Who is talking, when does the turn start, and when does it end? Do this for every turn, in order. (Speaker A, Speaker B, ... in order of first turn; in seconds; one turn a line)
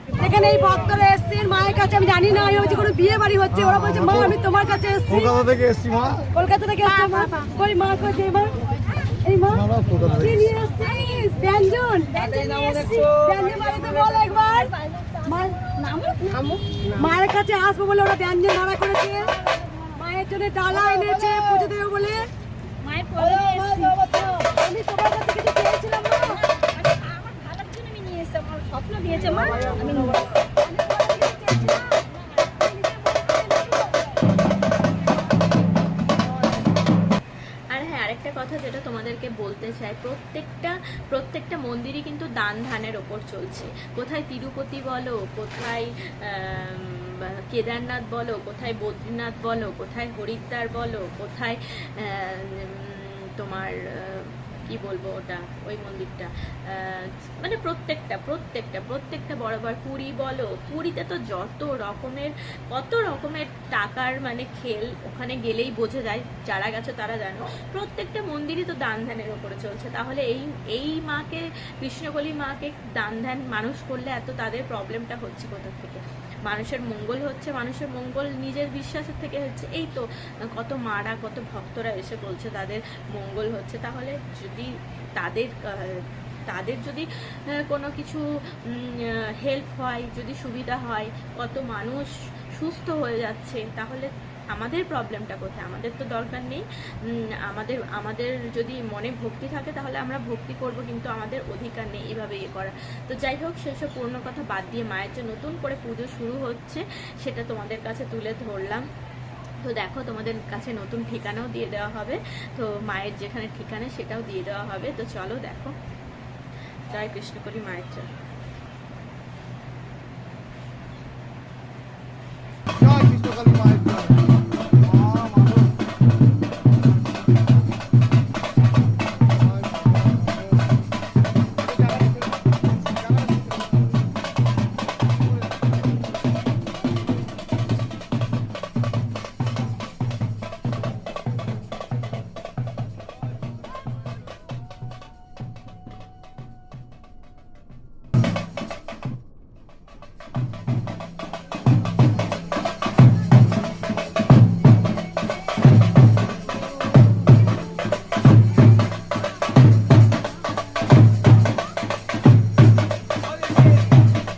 Speaker A: 0.2-5.4
Speaker B: 3.6-4.3
Speaker B: 5.2-6.2
Speaker A: 6.3-8.6
Speaker C: 6.9-7.3
Speaker A: 9.2-12.3
Speaker B: 9.6-10.3
Speaker C: 12.1-13.2
Speaker A: 13.2-15.6
Speaker C: 15.7-16.6
Speaker A: 16.9-19.3
Speaker C: 19.5-19.8
Speaker A: 19.9-22.2
Speaker C: 22.8-24.1
Speaker A: 23.2-26.4
Speaker C: 26.2-30.3
Speaker A: 30.6-34.0
Speaker D: 37.7-87.1
Speaker D: 87.6-108.8
Speaker D: 109.6-115.7
Speaker D: 116.9-118.1
Speaker B: 122.8-124.2
Speaker B: 124.9-125.7